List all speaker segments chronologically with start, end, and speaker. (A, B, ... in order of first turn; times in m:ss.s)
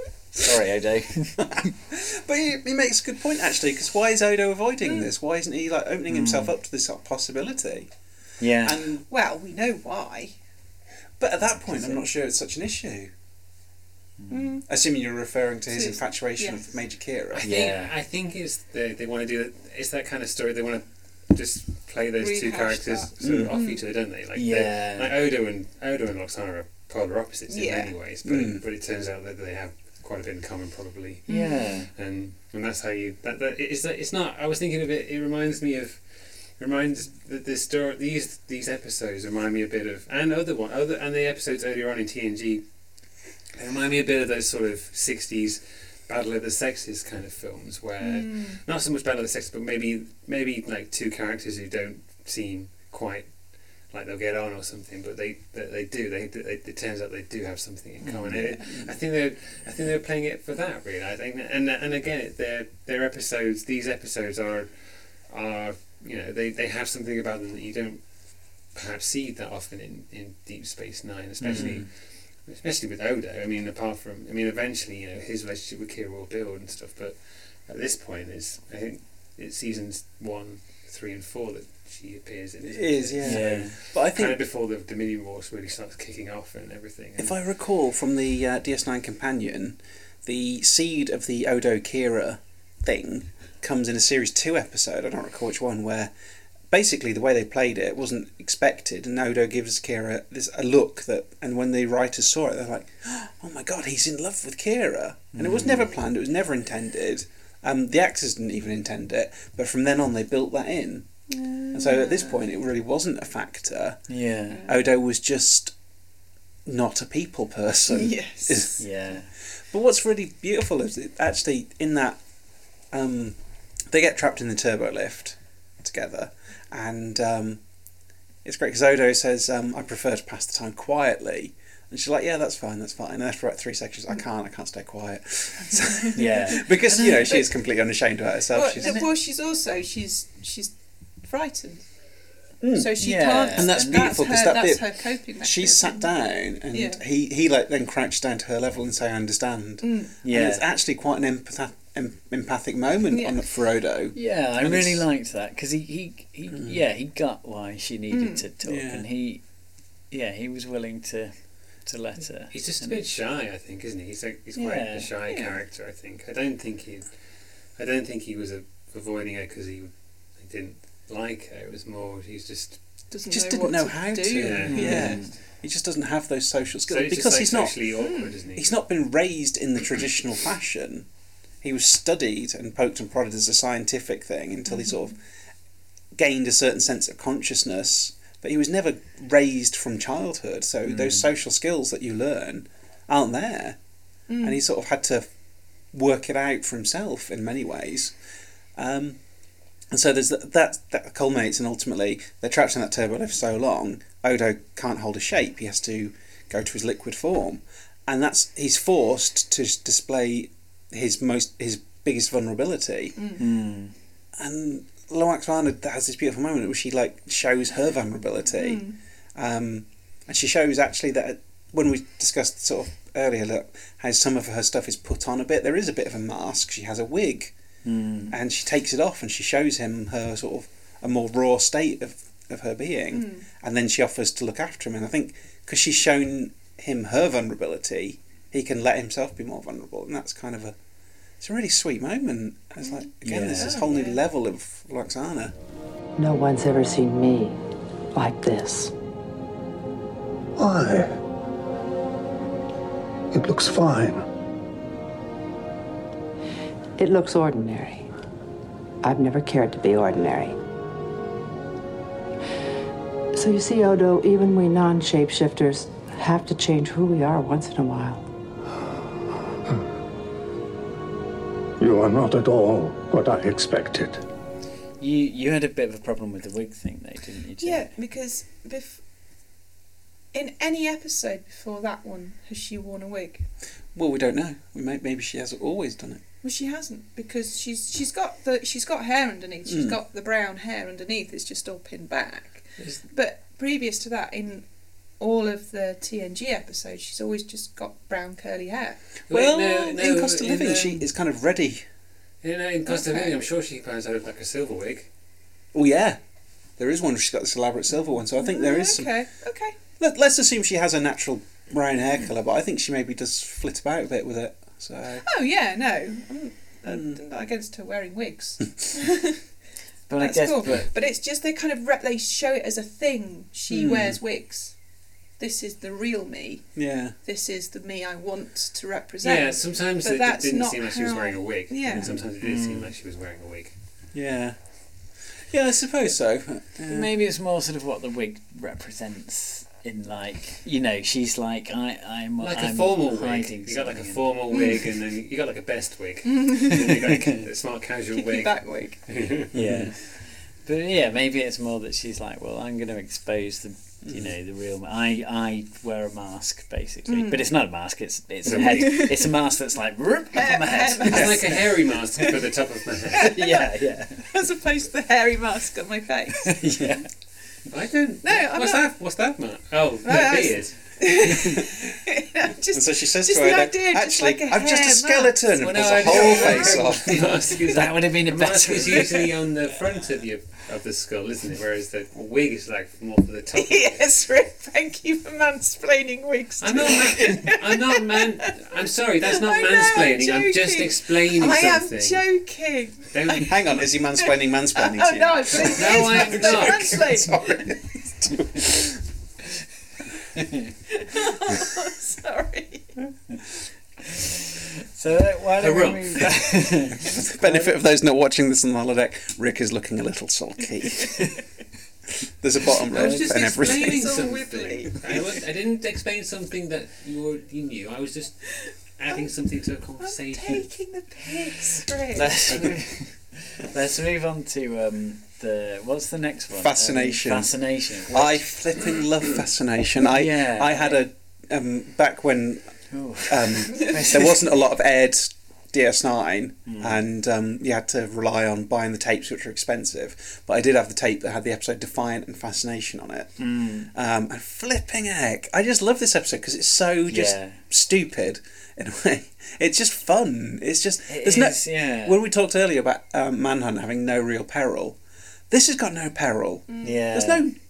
0:00.4-0:01.7 A
0:01.4-0:07.9 B
0:04.8-0:05.1 C
0:06.1-0:06.5 A
0:08.4-0:08.8 A
0:08.6-0:09.1 B
0:09.1-0:10.3 C
0:11.2-0:13.1 B
0:11.6-0:12.0 A
0:14.2-0:14.4 A
0:14.3-0:14.7 C
0:14.7-0:17.5 B
0:15.7-0:16.6 C
0:17.4-0:31.3 D
0:17.4-0:17.9 A
0:22.2-0:23.8 C
0:23.2-0:23.5 B
0:24.3-0:25.2 A
0:27.5-0:27.9 C
0:28.2-0:28.6 B
0:31.3-0:31.9 A
0:31.3-0:31.7 C
0:31.9-0:42.6 D
0:43.6-0:53.3 D
0:48.0-0:48.6 C
0:53.9-1:27.4 D
0:58.0-0:58.4 A
0:58.3-0:59.0 B
1:11.4-1:11.9 A
1:11.5-1:11.8 B
1:22.6-1:24.4 B
1:23.2-1:23.8 A
1:27.2-1:36.1 B
1:36.7-1:51.1 B
1:45.3-1:46.0 A
1:51.3-1:52.4 C
1:51.7-1:54.0 B
1:54.1-1:54.7 A
1:54.6-1:55.7 B
1:56.7-1:58.8 B
1:57.9-1:58.8 C
1:58.8-1:59.3 A
1:59.7-2:02.2 B
2:02.9-2:03.4 B
2:03.9-2:07.6 B
2:08.4-2:19.0 B
2:15.7-2:16.2 C
2:16.2-2:17.5 A
2:18.5-2:21.9 C
2:18.8-2:19.1 A
2:22.6-2:23.0 B
2:22.7-2:26.1 C
2:23.0-2:24.2 A
2:23.5-2:35.1 B
2:26.7-2:27.0 C
2:29.8-2:30.1 C
2:30.2-2:30.7 A
2:33.1-2:33.4 C
2:34.2-2:39.4 A
2:36.5-2:36.8 B
2:38.1-2:38.5 C
2:38.6-2:39.1 B
2:40.1-2:43.0 A
2:42.5-2:47.2 D
2:44.6-2:45.1 A
2:44.6-2:45.6 C
2:47.8-2:52.8 D
2:53.1-2:55.2 C
2:53.3-2:57.9 B
2:54.4-2:55.2 D
2:54.7-2:55.4 A
2:56.9-2:58.7 D
2:58.0-2:58.3 C
2:58.5-3:01.1 B
3:01.6-3:05.2 B
3:04.7-3:05.1 C
3:06.2-3:13.8 B
3:10.8-3:11.3 A
3:14.3-3:14.6 C
3:14.4-3:15.3 B
3:15.9-3:18.1 B
3:18.8-3:19.2 B
3:19.9-3:33.2 B
3:33.2-3:33.4 C
3:33.4-3:34.0 A
3:34.4-3:38.8 B
3:38.6-3:39.0 C
3:39.4-3:47.5 B
3:47.8-3:48.4 A
3:48.3-4:00.8 B
3:53.1-3:53.5 C
4:01.4-4:05.5 B
4:02.8-4:04.2 C
4:03.2-4:03.8 A
4:06.2-4:07.6 E
4:08.1-4:08.9 E
4:10.6-4:11.2 F
4:13.3-4:14.2 F
4:17.0-4:18.1 E
4:19.0-4:20.6 E
4:23.3-4:28.2 E
4:31.8-4:34.2 F
4:35.0-4:37.9 A
4:37.6-4:39.0 C
4:40.3-4:43.4 C
4:44.0-4:46.2 B
4:46.4-4:54.6 C
4:49.7-4:50.0 B
4:55.2-4:59.0 C
4:59.3-5:01.1 D
4:59.3-5:01.8 B
5:02.4-5:05.1 D
5:02.9-5:03.4 C
5:05.7-5:06.2 B
5:06.8-5:09.2 B
5:08.3-5:09.7 C
5:10.0-5:15.3 B
5:15.2-5:19.4 C
5:16.9-5:17.2 B
5:20.1-5:20.9 A
5:20.2-5:24.8 C
5:23.7-5:24.2 B
5:25.4-5:26.7 C
5:26.8-5:27.2 B
5:27.2-5:32.1 C
5:29.2-5:33.7 D
5:32.4-5:32.9 A
5:34.1-5:34.6 B
5:35.5-5:37.1 B
5:36.9-5:44.3 A
5:42.4-5:49.5 D
5:44.5-5:44.9 C
5:46.3-5:47.0 C
5:46.9-5:47.4 A
5:48.2-5:49.0 C
5:49.5-5:49.9 B
5:49.5-5:50.1 A
5:50.6-6:01.6 A
5:54.0-5:54.3 B
5:57.1-5:57.4 C
5:58.5-5:59.0 D
5:58.5-5:59.2 C
6:00.4-6:01.6 C
6:01.1-6:03.3 D
6:03.2-6:03.7 C
6:03.2-6:04.3 A
6:04.2-6:06.6 C
6:06.4-6:07.1 A
6:07.7-6:10.8 D
6:08.2-6:08.8 C
6:10.0-6:17.2 C
6:12.7-6:17.4 B
6:15.6-6:24.0 D
6:17.7-6:19.3 A
6:23.5-6:28.7 C
6:26.6-6:32.3 D
6:29.3-6:37.7 C
6:33.1-6:33.6 D
6:33.3-6:39.0 B
6:35.5-6:37.1 D
6:40.4-6:40.6 A
6:40.9-6:42.9 C
6:44.0-6:47.8 A
6:45.6-6:46.4 D
6:47.1-6:51.3 B
6:52.4-6:54.1 B
6:52.9-7:00.7 D
6:53.7-6:55.2 C
7:00.0-7:02.5 C
7:02.1-7:08.5 A
7:06.5-7:12.7 B
7:10.0-7:11.0 A
7:12.9-7:14.6 A
7:13.3-7:23.4 B
7:16.7-7:17.0 A
7:23.4-7:23.9 A
7:23.9-7:35.0 B
7:27.1-7:27.6 A
7:31.1-7:32.2 A
7:35.5-7:37.6 B
7:36.7-7:37.0 C
7:36.8-7:37.5 A